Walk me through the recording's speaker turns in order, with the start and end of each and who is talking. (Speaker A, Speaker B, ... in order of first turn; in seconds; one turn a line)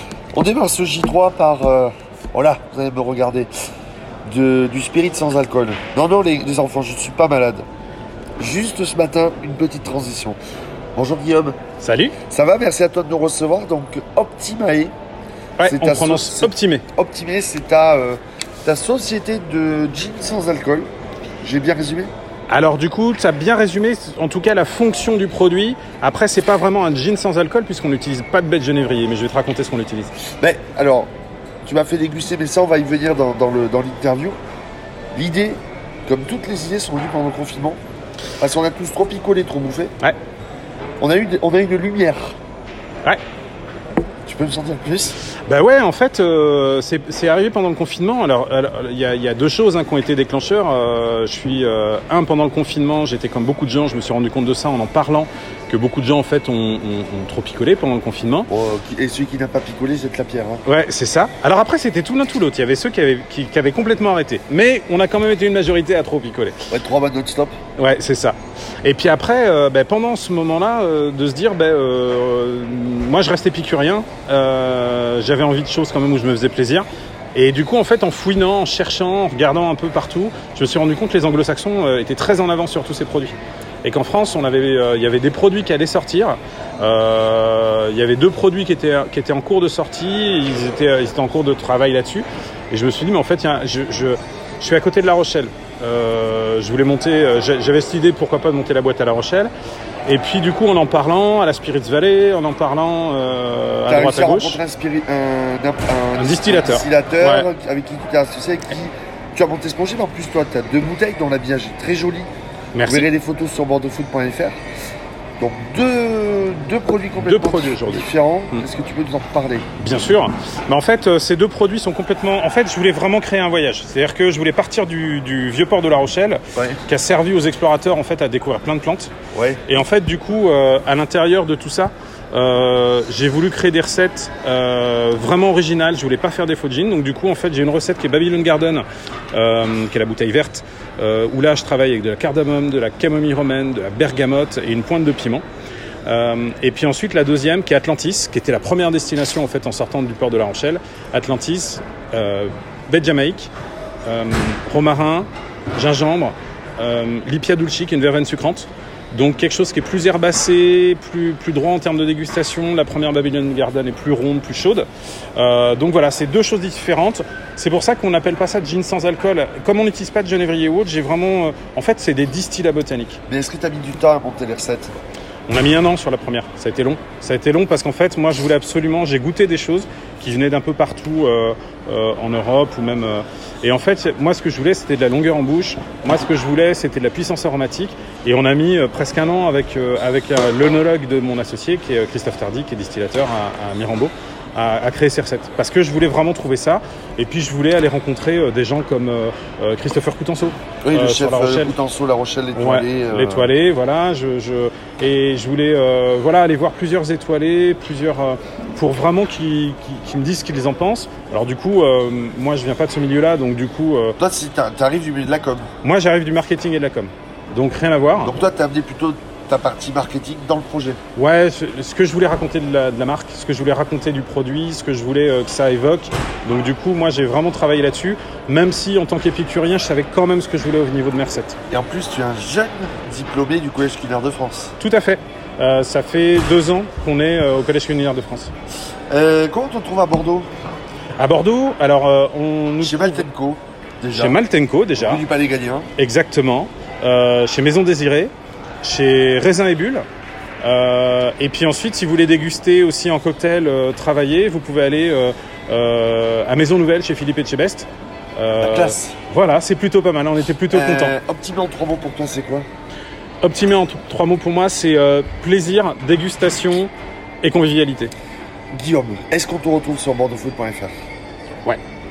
Speaker A: 0.3-3.5
Speaker A: 4.3-7.7
Speaker A: 8.4-10.4
Speaker A: 10.9-11.6
Speaker B: 11.8-12.1
Speaker A: 12.3-14.9
Speaker B: 15.6-16.8
Speaker A: 15.6-20.9
Speaker A: 21.4-22.1
Speaker B: 22.5-30.1
Speaker A: 30.4-31.1
Speaker A: 31.7-34.4
Speaker A: 35.1-37.8
Speaker A: 38.4-39.9
Speaker A: 41.0-42.4
Speaker A: 44.2-45.2
Speaker B: 45.5-58.5
Speaker A: 58.5-60.6
Speaker B: 60.6-66.5
Speaker A: 66.7-67.5
Speaker B: 67.8-99.5
Speaker B: 100.1-104.6
Speaker A: 103.9-112.3
Speaker B: 106.1-107.5
Speaker B: 112.7-113.1
Speaker A: 112.9-114.5
Speaker A: 115.4-119.7
Speaker B: 117.2-118.6
Speaker B: 119.8-129.1
Speaker A: 126.6-126.8
Speaker A: 129.3-129.6
Speaker B: 129.7-145.4
Speaker B: 146.1-153.5
Speaker B: 154.0-173.2
Speaker A: 173.3-174.9
Speaker B: 175.5-201.8
Speaker A: 200.8-203.5
Speaker B: 202.6-214.2
Speaker A: 214.2-215.7
Speaker B: 215.8-218.3
Speaker A: 218.2-221.0
Speaker B: 221.2-231.6
Speaker A: 231.7-234.7
Speaker B: 234.8-238.5
Speaker A: 239.1-240.5
Speaker B: 241.2-243.2
Speaker A: 242.8-244.4
Speaker B: 244.1-245.2
Speaker A: 245.0-245.9
Speaker B: 246.0-248.3
Speaker B: 248.8-250.0
Speaker B: 250.6-261.1
Speaker A: 258.6-259.2
Speaker A: 260.7-262.7
Speaker B: 263.4-266.9
Speaker B: 267.4-268.1
Speaker A: 268.7-270.9